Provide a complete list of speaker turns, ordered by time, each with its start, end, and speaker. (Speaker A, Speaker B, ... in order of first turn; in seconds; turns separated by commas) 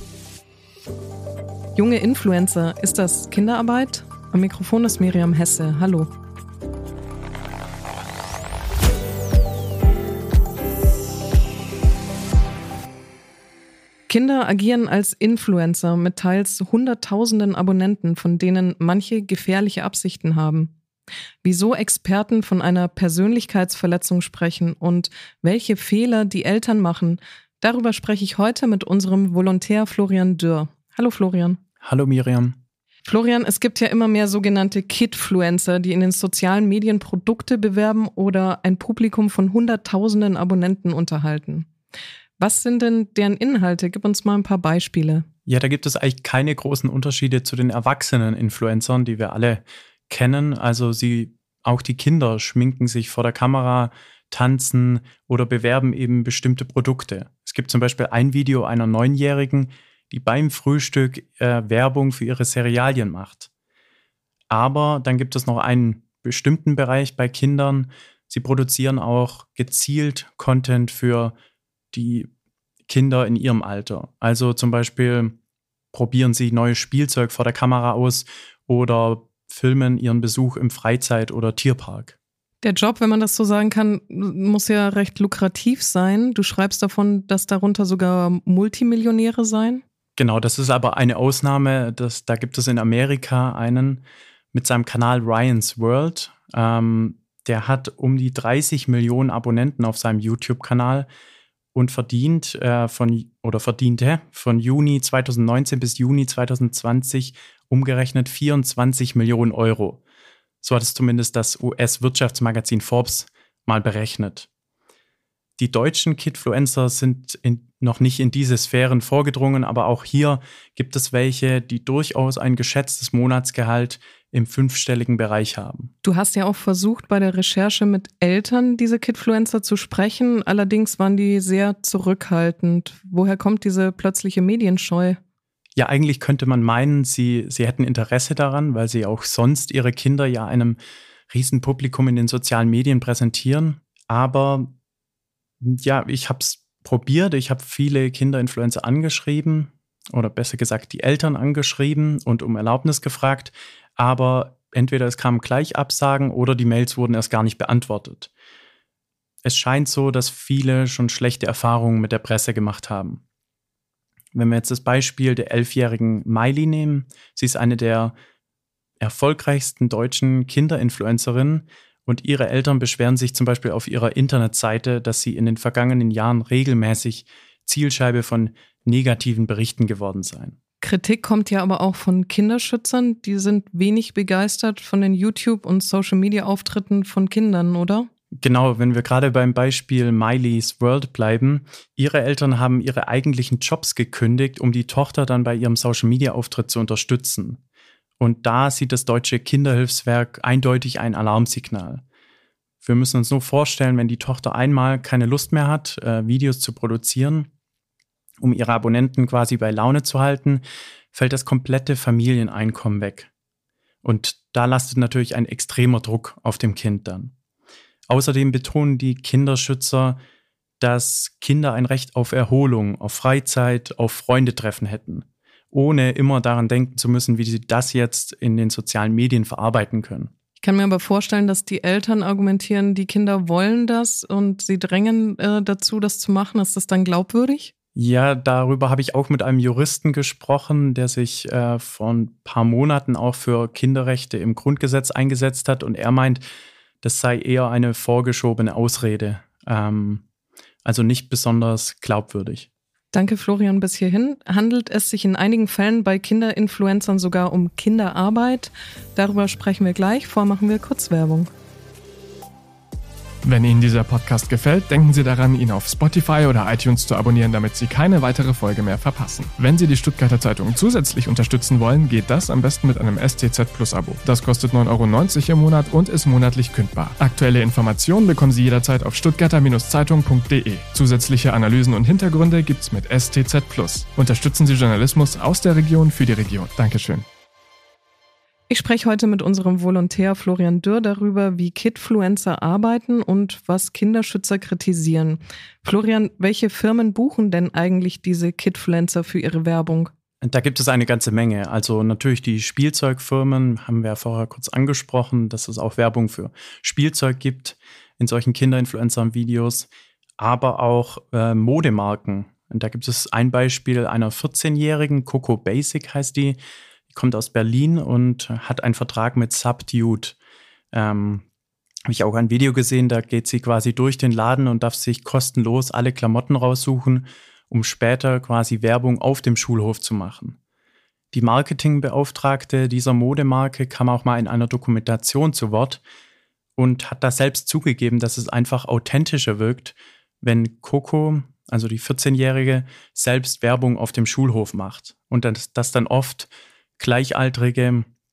Speaker A: 1.8-6.1, Speaker A: 14.1-20.7, Speaker A: 21.4-31.6, Speaker B: 31.8-32.6, Speaker A: 33.1-41.7, Speaker A: 42.4-45.3, Speaker B: 45.5-63.5, Speaker B: 64.5-71.3, Speaker B: 71.9-72.3, Speaker B: 72.9-75.4, Speaker B: 75.9-82.2, Speaker A: 82.6-89.8, Speaker B: 90.2-101.1, Speaker B: 101.7-110.0, Speaker B: 110.6-114.5, Speaker B: 115.6-125.9, Speaker A: 126.0-135.2, Speaker B: 135.8-140.8, Speaker B: 141.3-144.7, Speaker B: 145.6-158.3, Speaker B: 159.4-163.2, Speaker B: 164.3-168.1, Speaker B: 169.0-180.6, Speaker A: 180.8-188.1, Speaker B: 188.4-197.6, Speaker B: 198.2-202.0, Speaker B: 202.8-207.5, Speaker B: 208.4-213.3, Speaker B: 214.0-217.3, Speaker B: 218.1-220.2, Speaker B: 220.8-230.3, Speaker A: 230.6-237.7, Speaker B: 237.9-246.4, Speaker B: 247.0-250.2, Speaker B: 250.8-252.7, Speaker A: 253.1-261.5, Speaker C: 263.4-287.3, Speaker A: 288.7-300.1, Speaker B: 300.4-316.6, Speaker B: 317.1-320.4, Speaker B: 320.9-321.4, Speaker B: 322.1-330.6, Speaker B: 331.3-336.0, Speaker B: 336.8-348.1